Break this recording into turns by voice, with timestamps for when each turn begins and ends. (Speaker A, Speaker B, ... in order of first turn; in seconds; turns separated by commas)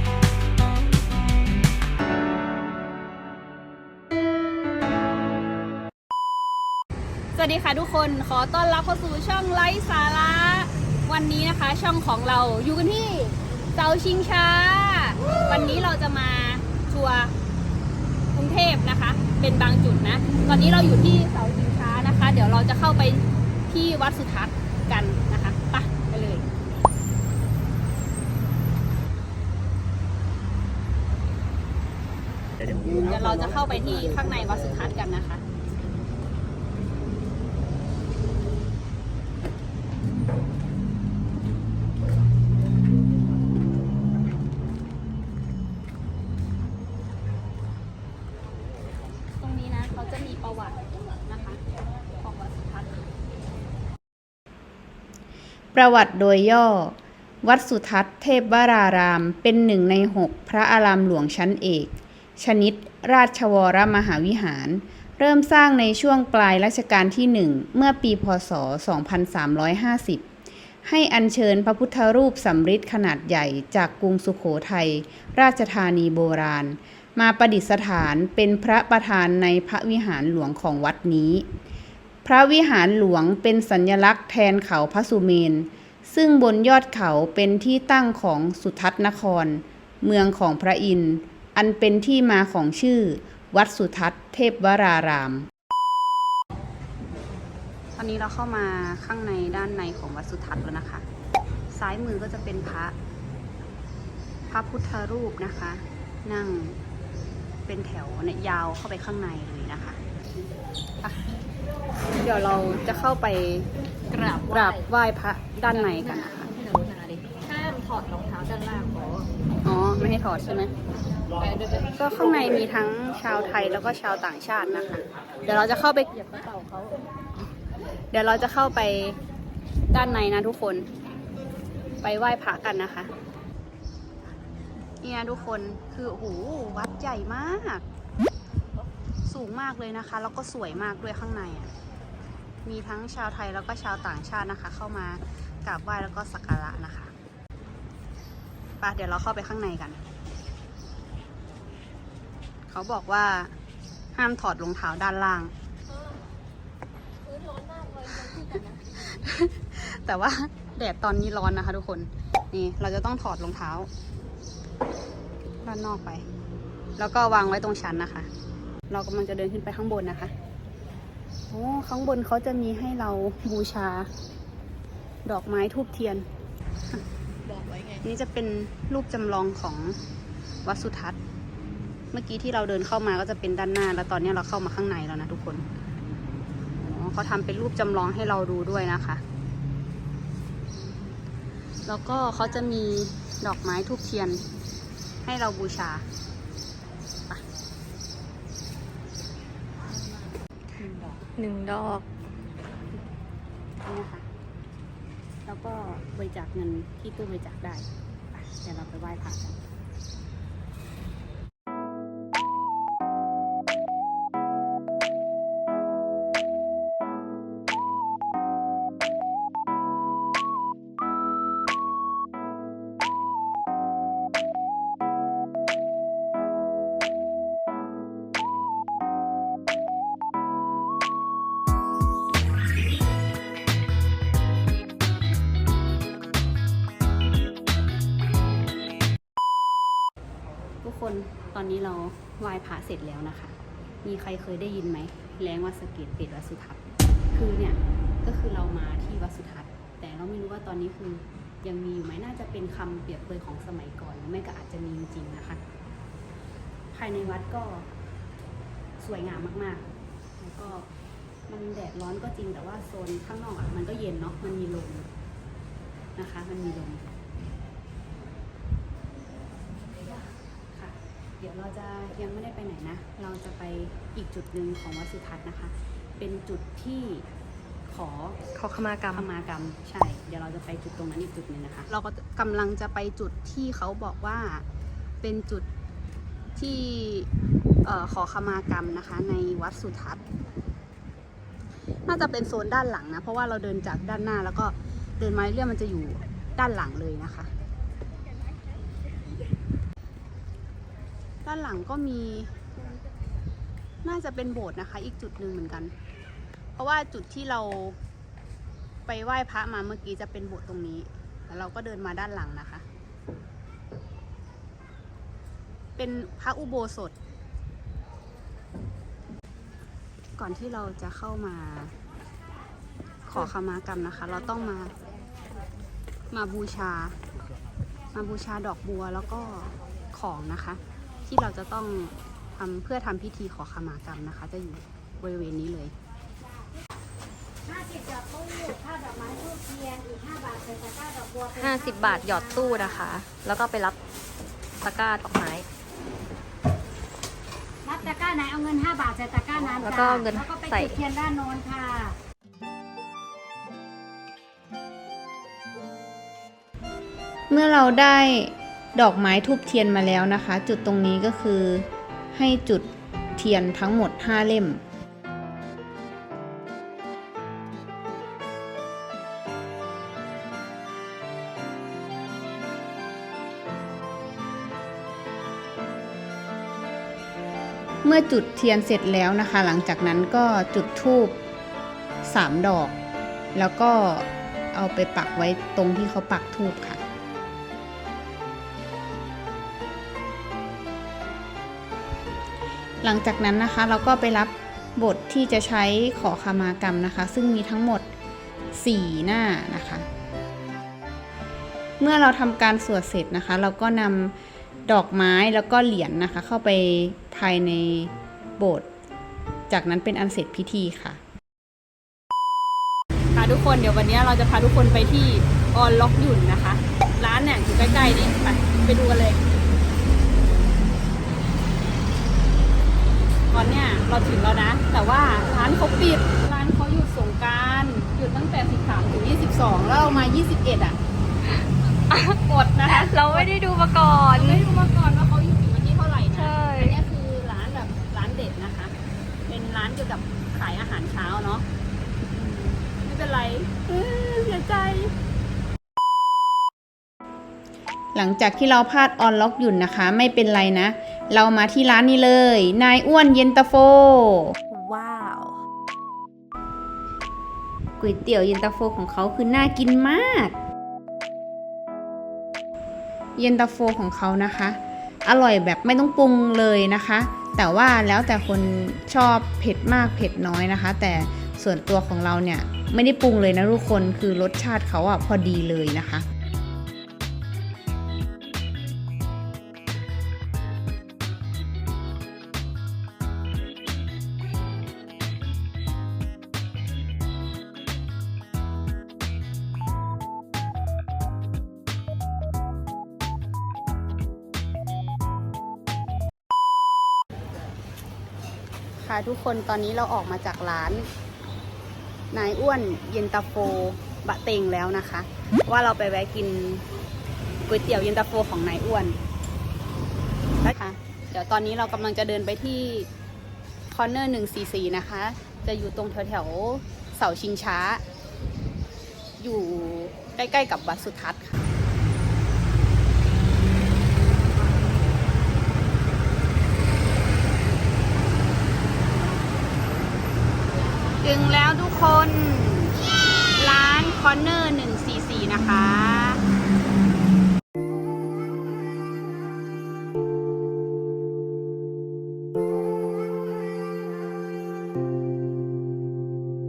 Speaker A: 7.4-17.3, Speaker A: 18.3-26.5, Speaker A: 32.9-35.4, Speaker A: 49.3-51.6, Speaker A: 52.2-53.1, Speaker B: 55.7-70.2, Speaker B: 70.9-81.5, Speaker B: 82.2-95.5, Speaker A: 98.0-101.0, Speaker A: 101.7-102.9, Speaker A: 104.5-106.8, Speaker A: 107.7-110.0, Speaker A: 112.2-113.7, Speaker C: 114.1-114.8, Speaker A: 114.5-116.5, Speaker C: 115.7-119.3, Speaker A: 119.7-120.7, Speaker A: 121.9-126.1, Speaker C: 126.2-126.9, Speaker A: 128.1-129.2, Speaker A: 129.9-130.9, Speaker A: 132.0-133.1, Speaker A: 135.0-137.8, Speaker A: 139.3-141.7, Speaker A: 142.7-147.1, Speaker A: 148.8-150.0, Speaker A: 152.7-153.5, Speaker A: 154.2-155.5, Speaker A: 158.0-163.9, Speaker A: 165.6-166.3, Speaker A: 167.0-168.3, Speaker A: 168.9-170.3, Speaker A: 171.5-174.1, Speaker A: 175.3-176.3, Speaker C: 177.5-177.8, Speaker A: 178.0-180.0, Speaker A: 180.7-181.2, Speaker A: 182.1-185.7, Speaker A: 186.8-189.2, Speaker A: 191.9-194.4, Speaker A: 195.2-196.1, Speaker A: 200.8-201.2, Speaker C: 201.4-202.1, Speaker A: 203.8-204.3, Speaker A: 205.5-209.6, Speaker A: 240.8-246.8, Speaker A: 247.3-255.6, Speaker A: 256.9-257.9, Speaker A: 259.0-259.9, Speaker A: 260.4-260.9, Speaker A: 261.5-265.1, Speaker A: 266.2-267.1, Speaker A: 270.7-277.3, Speaker A: 277.9-278.4, Speaker C: 278.6-279.3, Speaker A: 279.1-284.6, Speaker A: 285.2-285.7, Speaker A: 286.6-287.3, Speaker A: 287.9-290.2, Speaker A: 292.1-297.5, Speaker A: 301.4-302.6, Speaker A: 304.0-305.9, Speaker A: 306.8-308.0, Speaker A: 309.1-312.9, Speaker A: 316.0-317.1, Speaker A: 320.4-321.9, Speaker A: 323.3-325.0, Speaker A: 326.3-327.2, Speaker A: 328.1-335.9, Speaker D: 337.7-343.0, Speaker C: 341.6-344.0, Speaker C: 344.8-345.7, Speaker D: 347.9-352.2, Speaker C: 349.6-351.0, Speaker B: 357.5-364.8, Speaker B: 378.0-381.4, Speaker B: 382.2-382.9, Speaker B: 383.6-387.0, Speaker B: 393.0-398.1, Speaker B: 398.8-400.1, Speaker B: 402.0-404.3, Speaker B: 404.9-408.9, Speaker B: 409.7-411.2, Speaker A: 413.4-419.4, Speaker A: 423.5-431.0, Speaker C: 432.1-434.6, Speaker A: 432.4-433.5, Speaker A: 434.3-438.9, Speaker C: 436.4-437.0, Speaker A: 439.5-441.6, Speaker A: 442.3-445.1, Speaker B: 448.1-454.6, Speaker C: 454.6-455.6, Speaker B: 458.0-460.6, Speaker B: 463.4-476.2, Speaker A: 499.0-501.1, Speaker A: 502.3-506.9, Speaker A: 507.7-509.2, Speaker A: 510.6-513.1, Speaker A: 513.9-518.0, Speaker A: 519.4-521.7, Speaker A: 531.2-533.0, Speaker A: 533.6-536.4